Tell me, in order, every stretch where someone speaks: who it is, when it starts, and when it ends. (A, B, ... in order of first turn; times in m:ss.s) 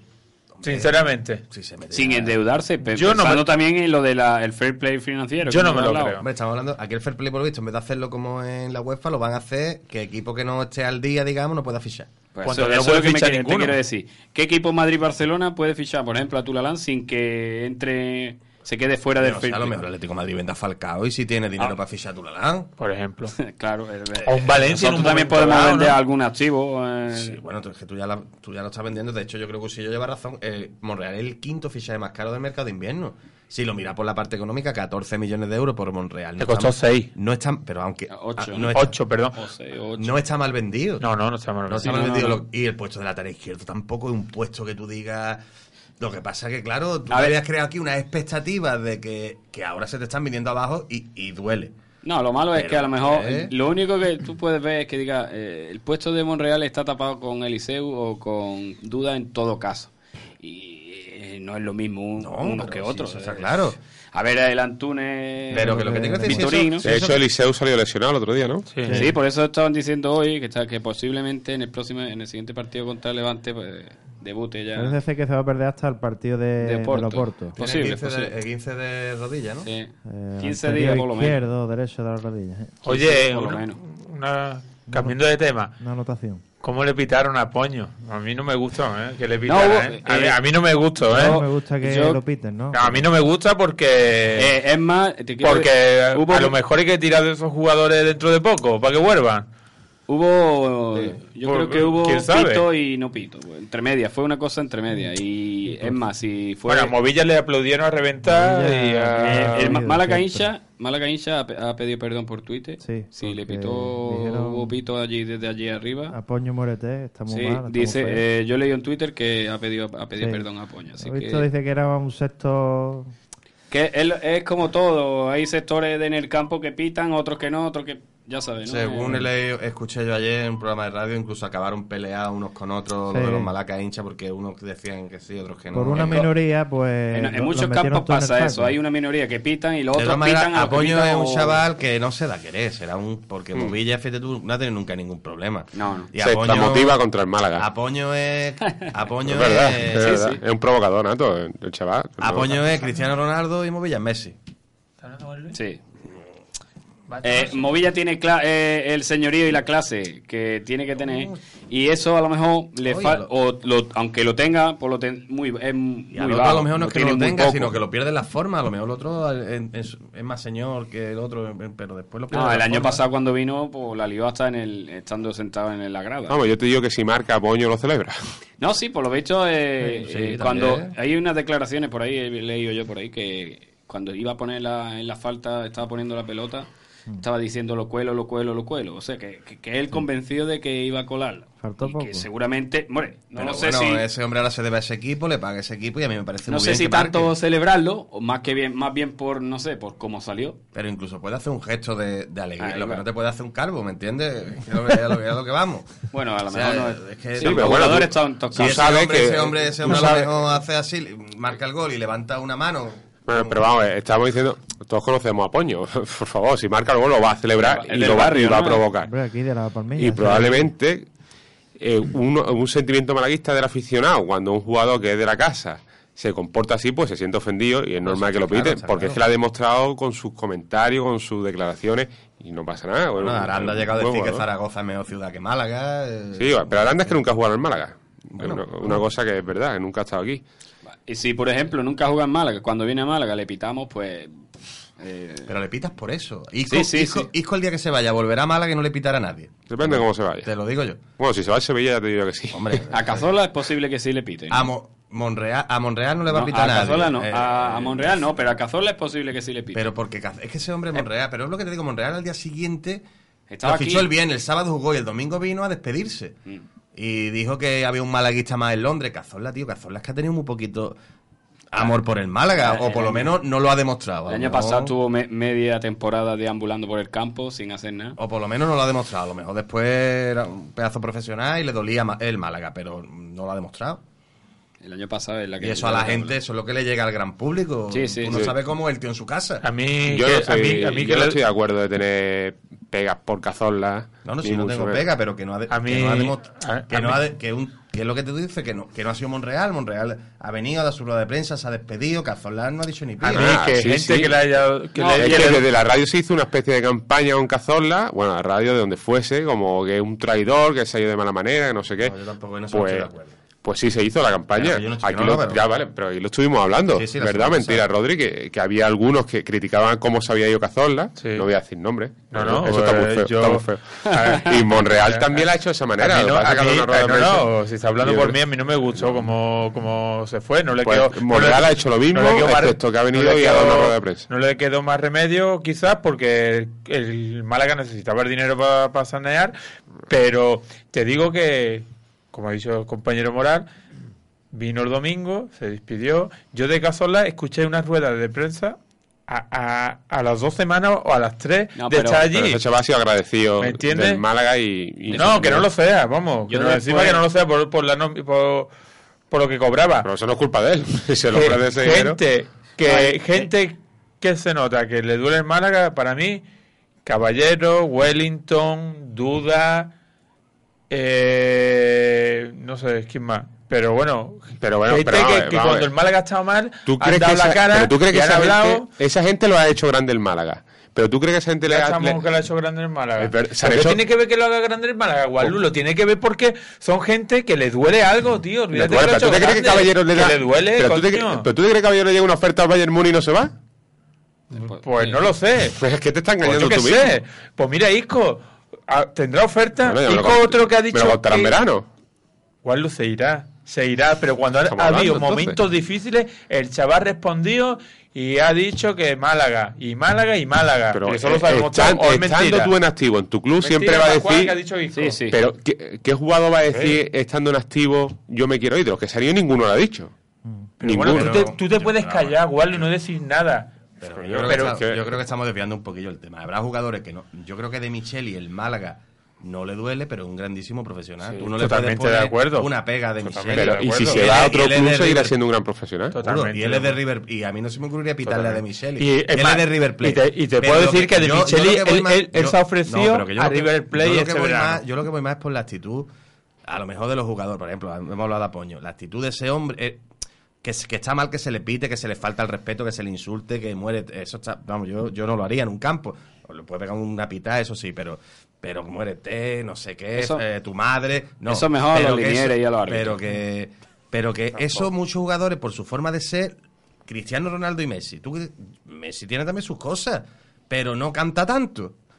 0:00.6-0:02.3 A
0:00.6-0:01.4 B
0:01.9-0:06.2 C
0:02.9-0:03.6 B
0:05.4-0:06.2 B
0:06.2-0:12.1 A
0:12.3-0:19.8 C
0:12.4-0:13.8 B
0:19.2-0:22.7 A
0:22.8-0:23.4 B
0:23.4-0:27.4 C
0:24.2-0:26.0 B
0:27.1-0:38.9 A
0:36.4-0:37.1 B
0:38.1-0:38.8 C
0:38.7-0:39.4 B
0:39.3-0:40.2 C
0:40.0-0:41.0 A
0:41.0-0:42.1 B
0:41.7-0:45.4 A
0:41.8-0:42.4 C
0:46.0-0:51.7 A
0:47.1-0:47.4 C
0:52.0-1:06.9 C
0:52.5-0:53.5 A
1:02.2-1:03.8 A
1:05.5-1:07.2 A
1:05.6-1:06.5 D
1:06.8-1:08.7 E
1:08.9-1:09.1 D
1:08.9-1:15.0 C
1:14.7-1:17.6 D
1:16.6-1:18.3 C
1:17.6-1:19.7 A
1:19.6-1:21.4 C
1:20.0-1:22.8 D
1:22.8-1:25.7 B
1:22.8-1:23.8 C
1:24.9-1:25.2 D
1:25.8-1:26.4 D
1:26.6-1:31.4 B
1:29.4-1:30.4 C
1:31.1-1:33.0 D
1:31.1-1:32.2 C
1:32.7-1:34.5 B
1:34.4-1:36.6 C
1:35.4-1:39.5 B
1:40.1-1:46.9 C
1:41.4-1:42.6 B
1:46.7-1:49.7 B
1:48.2-1:50.5 D
1:49.2-1:56.2 C
1:52.8-1:54.7 D
1:56.1-1:58.2 D
1:57.3-2:01.5 C
2:00.2-2:00.5 D
2:01.0-2:03.1 D
2:03.7-2:09.2 C
2:08.6-2:16.3 A
2:13.1-2:13.5 D
2:15.7-2:18.8 D
2:17.1-2:21.6 C
2:19.9-2:27.0 A
2:25.7-2:26.1 C
2:26.2-2:27.7 E
2:27.6-2:30.2 A
2:29.2-2:32.6 E
2:29.9-2:30.4 C
2:32.2-2:34.4 A
2:35.0-2:35.6 B
2:35.5-2:35.8 C
2:37.1-2:37.7 B
2:37.2-2:47.7 C
2:41.0-2:41.4 A
2:42.8-2:43.3 A
2:46.1-2:53.0 A
2:52.3-2:56.4 C
2:56.3-2:58.2 E
2:58.6-3:06.7 C
2:59.8-3:00.9 A
3:07.2-3:14.0 C
3:11.6-3:12.3 D
3:13.3-3:17.3 A
3:16.5-3:20.6 C
3:20.7-3:33.7 A
3:22.6-3:23.0 C
3:26.1-3:28.9 C
3:27.4-3:30.3 E
3:33.2-3:39.1 E
3:37.6-3:38.8 C
3:39.0-3:40.7 D
3:40.0-3:41.0 E
3:41.8-3:54.4 E
3:48.0-3:49.2 A
3:53.2-3:57.2 A
3:56.4-4:00.4 E
3:58.3-3:59.0 A
4:01.1-4:04.4 C
4:05.0-4:05.5 C
4:05.5-4:11.0 A
4:06.7-4:07.3 C
4:09.7-4:10.5 E
4:11.2-4:12.8 E
4:12.5-4:13.3 A
4:12.9-4:14.7 C
4:14.5-4:18.3 A
4:16.3-4:19.9 C
4:19.7-4:23.0 A
4:23.5-4:24.1 C
4:23.6-4:26.4 A
4:26.9-4:31.0 A
4:31.7-4:34.9 A
4:32.6-4:33.3 C
4:34.3-4:38.2 C
4:38.2-4:44.0 A
4:44.8-4:46.4 C
4:45.6-4:49.6 A
4:47.9-4:48.4 C
4:49.6-4:51.4 B
4:50.0-4:55.0 E
4:54.2-5:03.6 A
4:55.7-4:57.2 B
5:03.2-5:05.6 B
5:03.3-5:04.4 E
5:05.0-5:05.6 C
5:05.2-5:12.1 E
5:12.0-5:13.4 A
5:12.7-5:13.1 E
5:13.6-5:27.5 E
5:14.5-5:15.7 A
5:16.9-5:17.9 A
5:21.2-5:21.4 B
5:22.3-5:39.6 B
5:28.0-5:28.4 E
5:28.9-5:29.3 E
5:30.8-5:34.3 E
5:40.1-5:43.7 B
5:44.5-5:48.8 B
5:49.3-5:52.6 B
5:51.8-5:52.2 C
5:52.3-5:55.6 E
5:53.6-5:54.2 B
5:55.1-5:55.6 C
5:55.1-5:58.7 B
5:56.5-5:57.2 C
5:59.3-6:00.1 B
6:00.0-6:02.2 E
6:01.3-6:06.4 B
6:02.8-6:03.5 C
6:07.0-6:09.9 B
6:10.9-6:18.9 B
6:14.6-6:15.9 E
6:16.9-6:22.2 E
6:21.7-6:31.4 B
6:23.2-6:24.0 E
6:28.7-6:33.5 E
6:34.5-6:35.8 B
6:34.6-6:35.2 C
6:35.7-6:37.2 E
6:36.4-6:41.6 B
6:39.8-6:41.8 E
6:42.6-6:52.7 B
6:44.7-6:45.6 E
6:50.9-6:54.5 E
6:53.6-6:55.2 B
6:54.9-6:55.4 C
6:55.3-7:00.1 E
6:56.7-6:57.0 B
7:00.8-7:01.5 E
7:00.8-7:03.8 B
7:01.0-7:02.9 A
7:04.0-7:15.3 A
7:04.1-7:05.1 E
7:04.5-7:04.8 B
7:11.2-7:14.3 B
7:13.5-7:16.1 E
7:16.1-7:17.0 B
7:16.2-7:26.1 A
7:18.2-7:24.8 B
7:26.6-7:30.0 A
7:30.6-7:51.9 A
7:40.2-7:40.4 C
7:41.5-7:43.2 C